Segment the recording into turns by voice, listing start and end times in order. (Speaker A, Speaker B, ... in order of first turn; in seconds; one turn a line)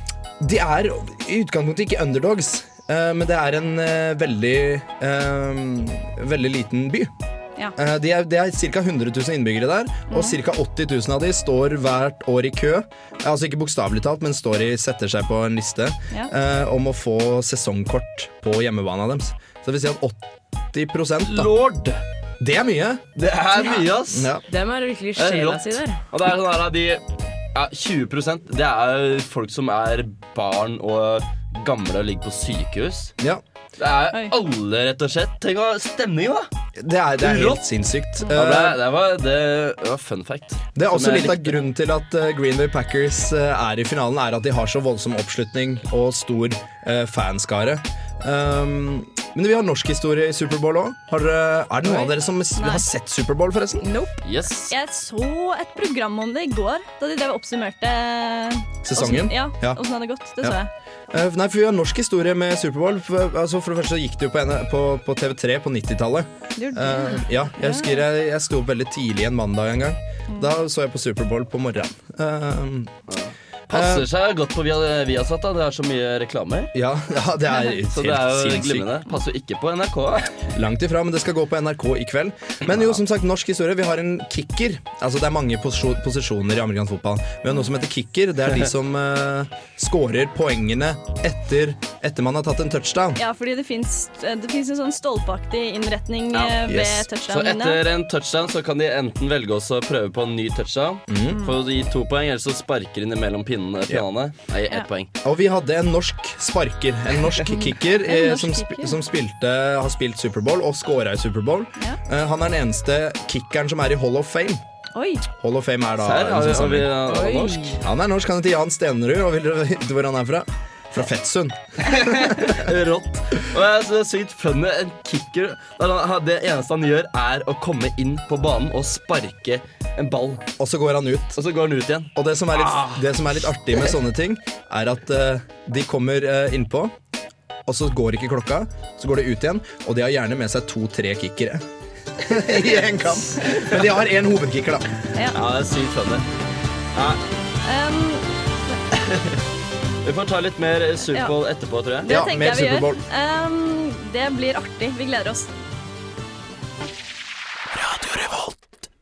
Speaker A: 0.4-7.1
Speaker A: 7.8-21.5
Speaker B: 10.1-10.4
Speaker C: 21.2-22.0
Speaker A: 22.4-23.0
Speaker C: 23.2-24.3
Speaker A: 24.1-24.4
Speaker D: 24.5-26.0
Speaker C: 25.2-33.1
Speaker C: 33.8-36.5
Speaker A: 36.8-38.8
Speaker C: 37.2-37.6
Speaker C: 38.3-41.6
Speaker A: 40.8-53.9
Speaker B: 51.9-52.9
Speaker D: 53.8-54.2
Speaker C: 54.2-54.7
Speaker B: 54.7-60.7
Speaker A: 58.9-59.8
Speaker A: 61.1-72.9
Speaker B: 66.6-68.0
Speaker C: 73.1-76.7
Speaker A: 73.7-74.1
Speaker A: 76.7-78.9
Speaker C: 77.9-80.4
Speaker A: 80.5-93.2
Speaker C: 82.7-83.0
Speaker B: 93.2-97.8
Speaker C: 96.3-96.6
Speaker A: 96.7-97.1
Speaker C: 97.3-105.1
Speaker A: 101.1-101.4
Speaker A: 105.2-114.6
Speaker B: 108.0-109.0
Speaker B: 114.9-115.2
Speaker A: 115.4-117.0
Speaker C: 116.0-117.8
Speaker D: 117.1-117.8
Speaker A: 117.8-122.5
Speaker C: 121.8-130.5
Speaker A: 130.6-131.4
Speaker C: 131.3-133.3
Speaker A: 132.2-136.9
Speaker A: 137.7-141.7
Speaker A: 142.2-144.9
Speaker C: 143.6-143.8
Speaker C: 145.3-146.3
Speaker C: 146.9-147.2
Speaker B: 147.6-148.3
Speaker C: 148.9-149.4
Speaker C: 150.0-152.2
Speaker B: 152.0-155.5
Speaker A: 152.1-153.0
Speaker C: 157.8-158.5